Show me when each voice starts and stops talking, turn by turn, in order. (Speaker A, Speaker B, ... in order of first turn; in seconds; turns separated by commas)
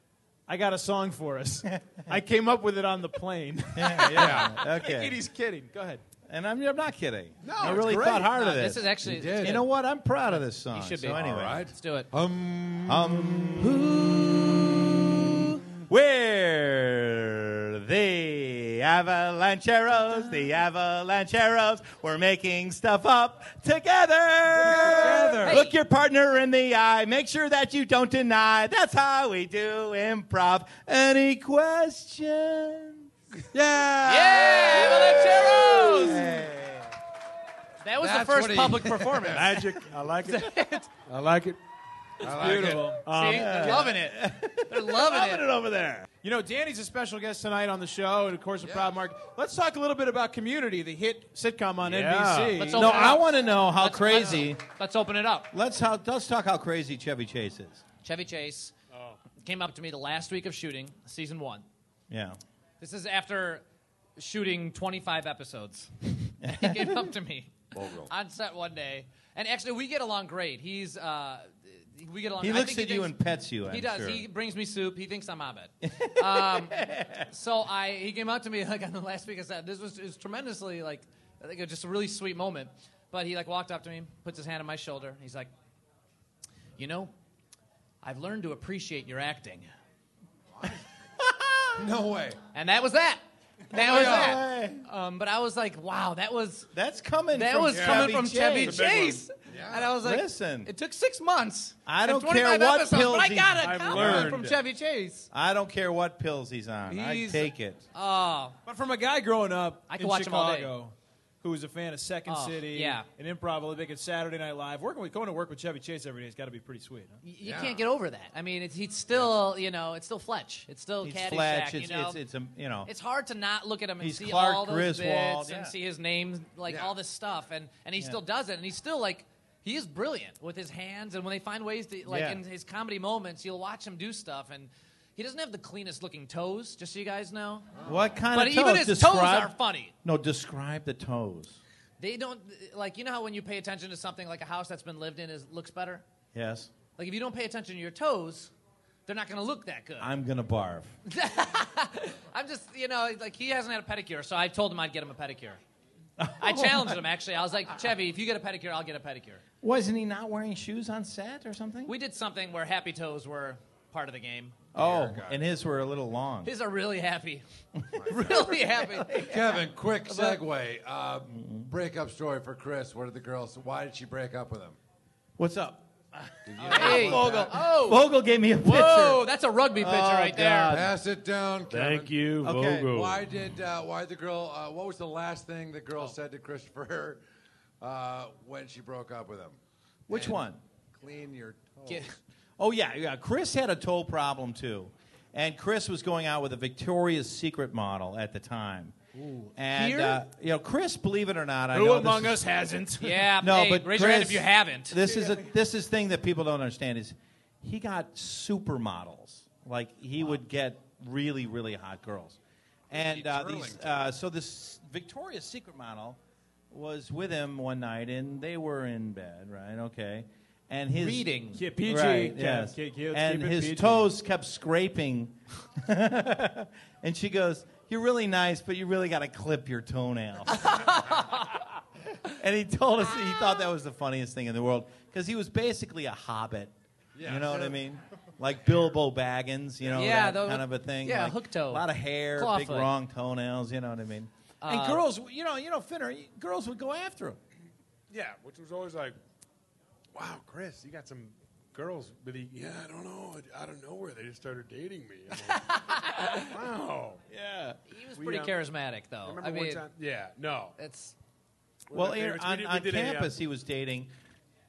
Speaker A: 0.5-6.0, Speaker B: 1.7-2.0, Speaker B: 3.8-5.2, Speaker C: 4.1-4.6, Speaker B: 6.3-11.7, Speaker D: 7.4-7.9, Speaker E: 7.6-9.6, Speaker C: 9.0-9.6, Speaker E: 10.7-12.1, Speaker C: 11.1-13.9, Speaker B: 12.9-33.1, Speaker C: 24.7-25.6, Speaker E: 25.4-25.7, Speaker C: 33.5-34.1, Speaker E: 34.0-36.4, Speaker B: 34.0-36.9, Speaker E: 37.8-39.6, Speaker C: 38.0-39.5, Speaker D: 39.3-41.6, Speaker E: 40.2-40.9, Speaker C: 42.2-43.0, Speaker A: 42.2-43.1, Speaker D: 42.5-43.9, Speaker E: 43.1-45.5, Speaker B: 43.2-46.1, Speaker A: 46.2-53.1, Speaker C: 48.6-49.0, Speaker D: 51.8-52.7, Speaker E: 52.6-55.5, Speaker B: 52.7-54.6, Speaker B: 55.5-57.8, Speaker E: 58.0-58.7, Speaker D: 58.9-59.2, Speaker E: 59.4-61.7, Speaker B: 62.1-62.4, Speaker E: 62.8-63.6, Speaker E: 64.2-85.5, Speaker B: 66.4-67.1, Speaker C: 67.7-68.1, Speaker B: 72.4-74.3, Speaker B: 75.8-77.3, Speaker E: 86.8-87.1, Speaker E: 88.0-89.7, Speaker C: 90.5-90.8, Speaker B: 91.3-91.6, Speaker C: 91.8-92.4, Speaker E: 92.5-96.7, Speaker B: 93.7-94.8, Speaker C: 93.8-94.4, Speaker B: 96.7-98.9, Speaker E: 97.3-105.3, Speaker C: 97.7-98.1, Speaker D: 98.6-99.2, Speaker C: 99.5-100.0, Speaker B: 100.0-100.7, Speaker B: 101.9-104.4, Speaker D: 103.6-104.6, Speaker B: 105.3-107.8, Speaker A: 106.9-107.5, Speaker E: 107.9-108.6, Speaker A: 108.7-117.2, Speaker E: 109.9-110.7, Speaker E: 112.3-113.0, Speaker E: 117.2-122.2, Speaker C: 117.4-117.8, Speaker B: 121.0-122.9, Speaker E: 122.9-137.7, Speaker B: 124.0-125.7, Speaker C: 126.7-127.0, Speaker B: 132.1-132.4, Speaker C: 137.8-138.2, Speaker B: 137.8-141.6, Speaker E: 138.3-139.9, Speaker E: 142.0-146.1, Speaker B: 146.3-146.7, Speaker E: 147.0-148.5, Speaker E: 149.1-150.1, Speaker B: 150.0-150.9, Speaker E: 151.1-155.6, Speaker B: 156.2-157.0, Speaker E: 156.4-159.4, Speaker B: 159.6-161.9, Speaker E: 161.9-164.6, Speaker B: 164.8-166.5, Speaker C: 164.8-165.4, Speaker E: 166.4-167.4, Speaker B: 167.8-169.5, Speaker C: 168.0-168.3, Speaker E: 168.0-169.2, Speaker C: 169.2-174.8, Speaker E: 170.1-170.4, Speaker B: 171.4-171.7, Speaker B: 175.4-180.9, Speaker C: 176.5-177.5, Speaker E: 176.6-178.1, Speaker E: 178.6-180.8, Speaker C: 180.7-182.1, Speaker D: 181.7-183.3, Speaker B: 182.4-182.9, Speaker C: 182.9-187.2, Speaker C: 187.8-189.6, Speaker B: 190.1-190.6, Speaker C: 190.1-192.1, Speaker E: 191.9-192.1, Speaker B: 192.6-199.0, Speaker A: 199.2-199.5, Speaker B: 199.6-202.4, Speaker E: 199.7-200.2, Speaker A: 201.7-203.3, Speaker E: 203.0-205.1, Speaker B: 203.4-212.4, Speaker B: 212.9-216.2, Speaker C: 212.9-214.0, Speaker B: 216.7-230.8, Speaker E: 221.0-221.6, Speaker A: 221.6-224.1, Speaker E: 230.6-231.5, Speaker B: 232.2-236.7, Speaker C: 237.2-237.8, Speaker B: 237.2-247.4, Speaker E: 239.9-242.9, Speaker E: 244.6-245.0, Speaker D: 248.1-249.2, Speaker D: 250.1-257.2, Speaker E: 255.7-256.4, Speaker E: 257.9-259.8, Speaker D: 258.1-258.6, Speaker D: 259.2-260.8, Speaker E: 260.8-261.1, Speaker D: 261.9-263.3, Speaker B: 261.9-264.1